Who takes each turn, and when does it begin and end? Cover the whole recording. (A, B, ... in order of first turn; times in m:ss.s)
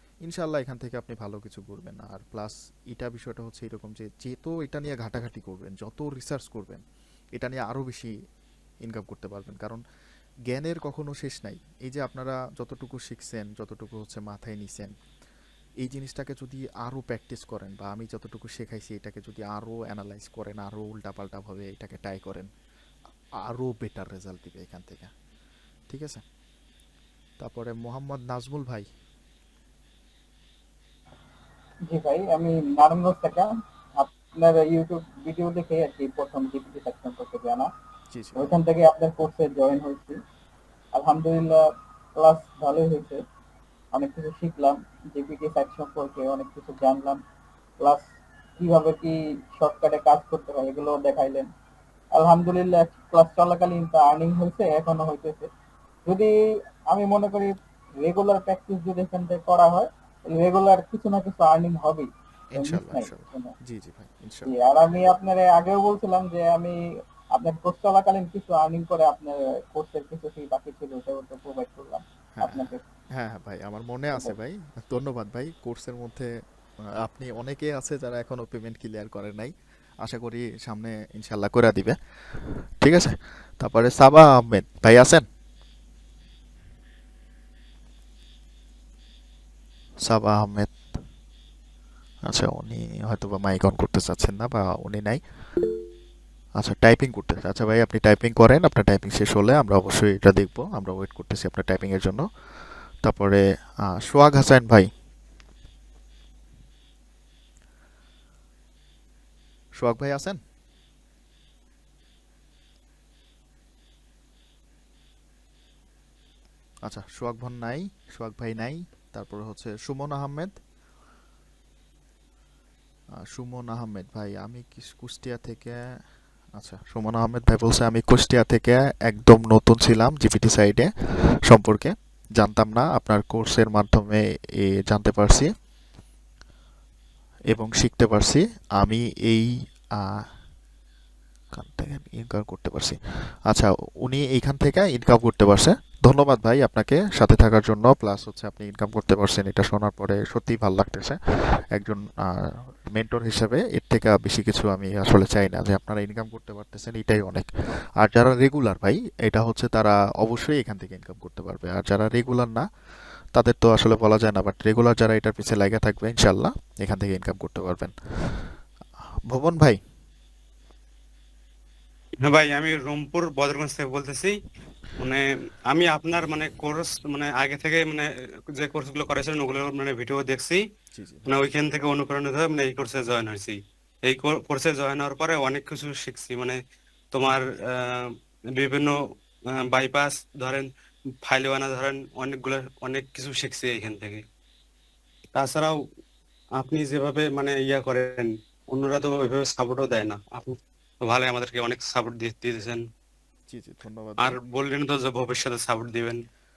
0:00.2-0:06.8 A
0:07.4-0:08.1 A
0:08.8-0:09.8 A
0:10.5-0:14.9 A
0:15.8-0:22.5 A
0:23.5-0:25.1 A
0:25.9-0:26.2 A
0:27.4-0:28.9 A
0:31.9-0:37.7 B
0:38.1-0:38.6 A
0:38.4-0:40.2 B
0:40.9-0:41.6 B
0:42.2-0:43.2 B
0:43.9-0:47.2 B
0:47.8-0:51.5 B
0:52.2-0:55.5 B
0:56.1-0:56.3 B
0:56.9-1:03.5 B
1:02.5-1:04.5 A
1:04.4-1:06.8 B
1:07.3-1:12.8 B
1:12.4-1:16.3 A
1:17.0-1:22.0 A
1:22.8-1:25.2 A
1:30.1-1:30.8 A
1:32.3-1:35.2 A
1:36.6-1:42.3 A
1:43.0-1:44.9 A
1:49.8-1:50.4 A
1:56.9-2:00.5 A
2:03.3-2:05.8 A
2:06.6-2:10.9 A
2:11.5-2:15.5 A
2:17.5-2:20.2 A
2:21.6-2:31.2 A
2:31.8-2:37.5 A
2:38.0-2:42.7 A
2:43.4-2:47.9 A
2:49.3-2:49.8 A
2:52.2-2:54.4 C
2:55.0-3:00.6 C
3:01.0-3:01.3 A
3:01.3-3:06.6 C
3:07.1-3:08.0 C
3:08.6-3:09.0 C
3:09.7-3:10.7 C
3:11.3-3:14.2 C
3:15.4-3:15.8 C
3:16.6-3:22.8 C
3:23.5-3:24.4 A
3:24.2-3:26.2 C